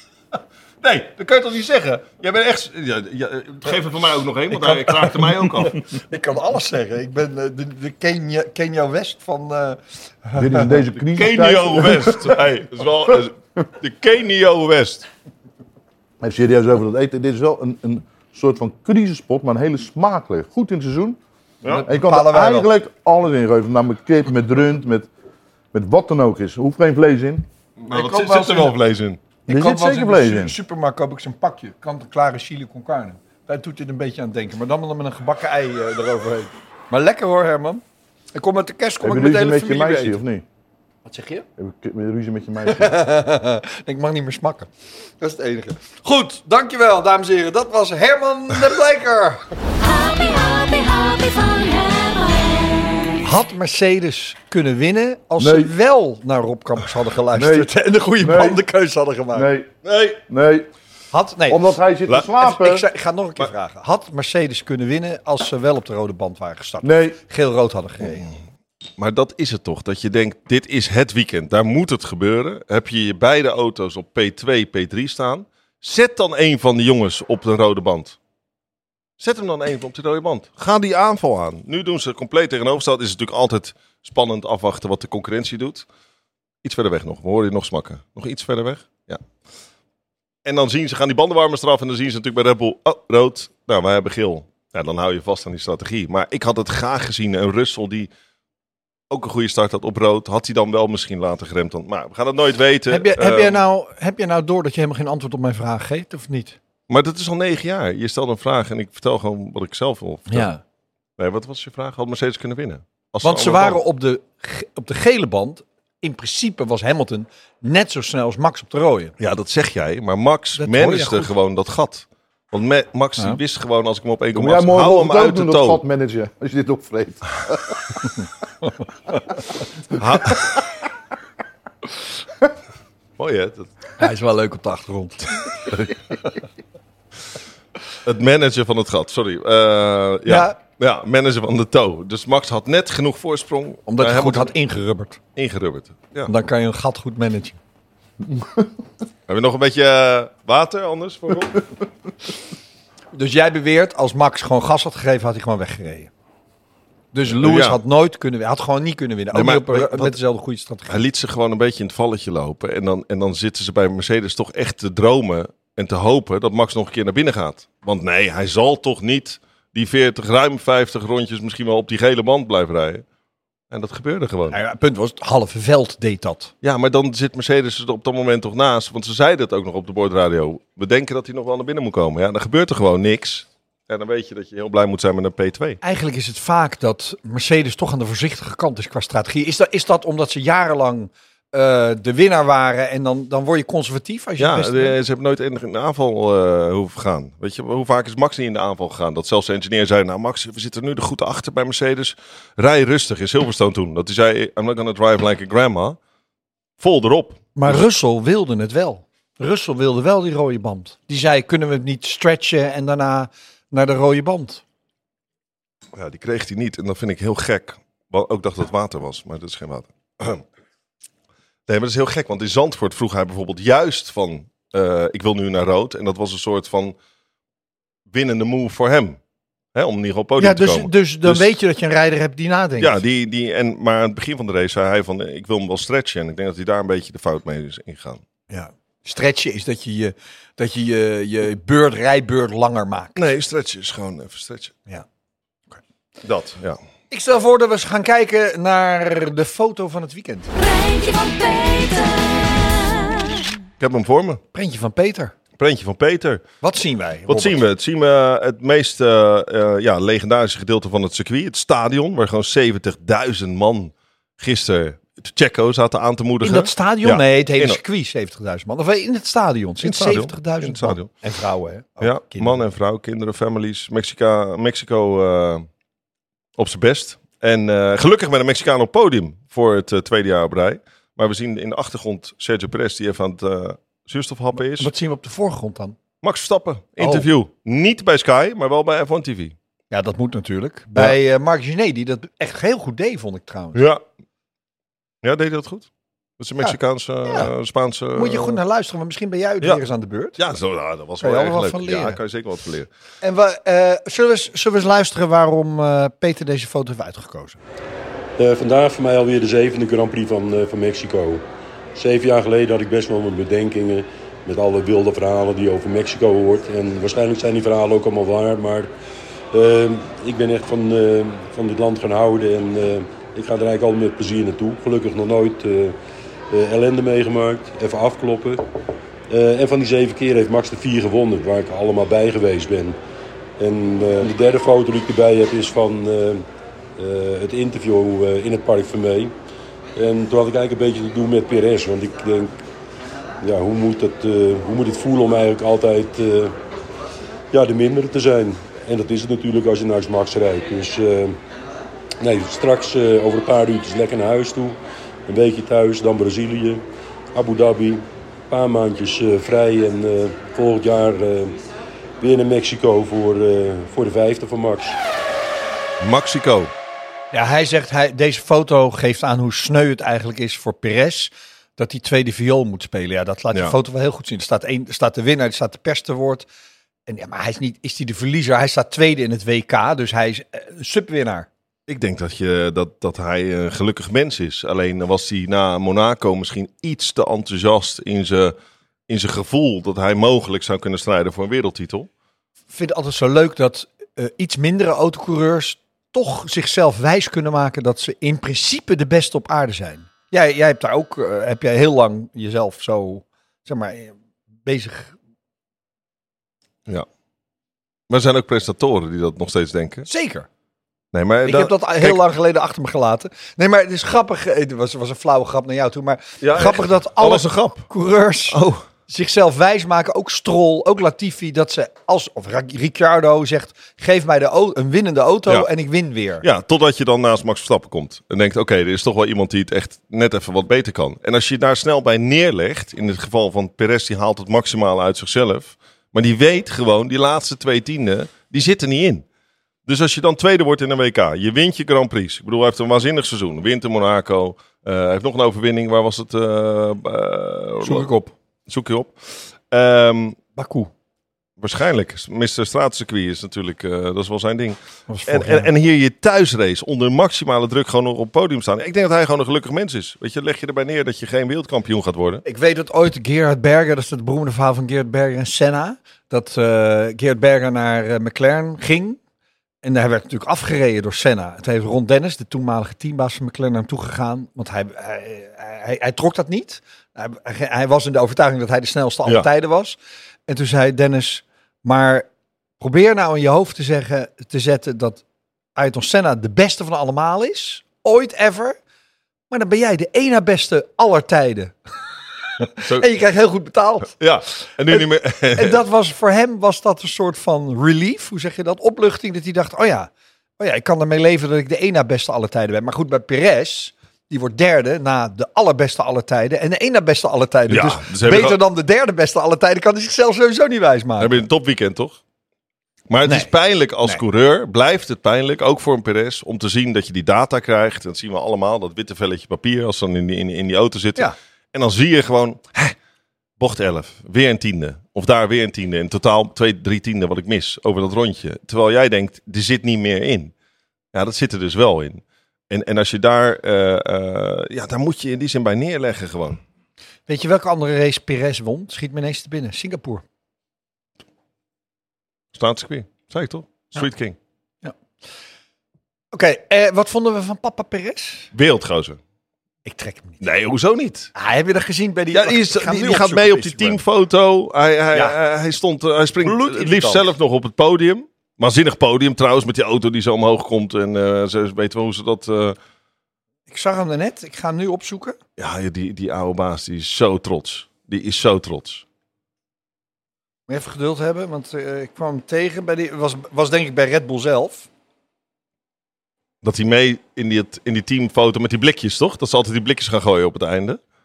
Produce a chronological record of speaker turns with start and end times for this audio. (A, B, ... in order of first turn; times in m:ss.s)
0:00.8-0:05.8 A
0:04.5-0:10.7 B
0:10.4-0:12.4 C
0:11.1-0:15.1 A
0:16.2-0:21.2 C
0:21.6-0:22.7 B
0:21.8-0:25.1 C
0:25.7-0:27.5 C
0:27.8-0:29.2 A
0:27.9-0:28.7 B
0:29.5-0:30.6 C
0:29.5-0:37.8 B
0:38.3-0:40.2 B
0:39.0-0:40.4 C
0:41.1-0:41.5 B
0:41.6-0:43.0 C
0:42.6-0:44.7 B
0:45.2-0:49.4 B
0:49.8-0:53.2 D
0:53.2-0:59.5 B
0:55.4-0:55.7 C
0:57.3-0:58.6 C
0:59.3-0:59.7 C
0:59.8-1:00.2 A
1:00.3-1:00.7 C
1:01.1-1:01.8 B
1:01.5-1:02.9 C
1:02.4-1:08.3 B
1:06.8-1:07.2 C
1:08.1-1:08.3 A
1:09.0-1:18.2 A
1:19.2-1:25.9 A
1:26.6-1:29.2 A
1:30.4-1:38.1 A
1:39.1-1:43.6 A
1:42.9-1:46.6 B
1:46.9-1:50.5 A
1:50.3-1:50.6 B
1:51.2-1:53.8 A
1:53.2-1:59.1 B
1:59.2-2:05.8 A
2:00.6-2:01.3 B
2:04.3-2:08.0 C
2:09.9-2:10.6 A
2:13.2-2:13.7 A
2:14.0-2:16.3 B
2:18.0-2:24.5 A
2:20.3-2:20.6 B
2:23.9-2:25.2 B
2:25.4-2:26.3 A
2:26.3-2:27.6 B
2:28.3-2:28.6 C
2:29.3-2:31.7 A
2:33.1-2:36.1 B
2:37.1-2:41.0 B
2:37.3-2:37.8 A
2:39.3-2:40.2 A
2:40.9-2:53.0 A
2:53.7-2:54.6 A
2:54.5-2:56.5 B
2:56.6-3:05.8 A
3:05.8-3:15.0 B
3:14.4-3:26.0 A
3:26.8-3:27.8 A
3:27.6-3:34.6 B
3:35.9-3:40.4 A
3:41.7-3:47.0 A
3:48.1-3:49.2 A
3:49.7-3:51.5 A
3:50.4-3:53.0 B
3:52.8-3:58.2 A
3:58.5-4:03.3 B
4:03.2-4:04.8 A
4:06.2-4:06.8 A
4:07.1-4:10.5 B
4:10.5-4:13.5 D
4:13.8-4:14.4 A
4:14.5-4:15.3 B
4:15.6-4:16.4 A
4:16.6-4:17.6 B
4:17.3-4:27.8 A
4:26.4-4:32.6 B
4:29.8-4:31.1 A
4:32.0-4:35.7 A
4:36.6-4:44.9 A
4:44.6-4:46.0 B
4:46.2-4:49.6 A
4:47.0-4:47.3 B
4:49.9-4:53.8 B
4:53.8-4:54.0 A
4:55.2-4:58.6 A
4:56.6-4:57.5 B
4:58.2-5:00.4 B
5:00.4-5:02.9 A
5:01.2-5:02.2 B
5:03.2-5:07.6 B
5:08.4-5:11.4 E
5:12.0-5:18.9 E
5:19.5-5:26.0 E
5:26.5-5:28.6 E
5:29.3-5:33.0 E
5:33.6-5:36.5 E
5:37.0-5:39.3 E
5:40.0-5:42.6 E
5:43.4-5:46.6 E
5:47.5-5:51.4 E
5:52.2-6:01.6 E
6:02.2-6:05.0 E
6:06.0-6:06.7 A
6:07.3-6:16.5 B
6:17.1-6:21.5 B
6:21.9-6:28.6 A
6:29.1-6:32.1 A
6:32.7-6:45.2 B
6:48.1-6:50.1 A
6:50.1-6:50.5 B
6:51.1-6:52.2 A
6:51.4-7:06.4 B
6:56.4-6:57.9 A
6:58.5-6:58.8 A
7:06.4-7:19.2 A
7:19.9-7:28.1 A
7:27.8-7:28.3 B
7:28.7-7:30.4 A
7:30.6-7:30.9 B
7:31.6-7:42.4 A
7:35.1-7:35.7 B
7:42.4-7:49.2 B
7:49.8-8:02.3 B
8:02.8-8:05.2 B
8:05.8-8:08.8 B
8:09.5-8:11.8 B
8:12.6-8:14.2 B
8:12.8-8:13.1 A
8:14.2-8:15.8 A
8:15.6-8:31.4 B
8:27.7-8:28.6 A
8:31.2-8:32.2 A
8:33.1-8:42.9 A
8:33.2-8:33.5 B
8:43.6-8:50.5 A
8:51.1-8:56.6 A
8:57.3-9:00.2 B
9:02.5-9:04.4 A
9:06.3-9:08.5 B
9:08.5-9:09.2 A
9:09.8-9:10.5 B
9:10.4-9:11.3 A
9:11.4-9:14.0 B
9:12.3-9:22.8 A
9:16.4-9:17.3 B
9:23.7-9:25.4 B
9:25.6-9:29.0 A
9:30.7-9:34.9 B
9:36.6-9:41.0 A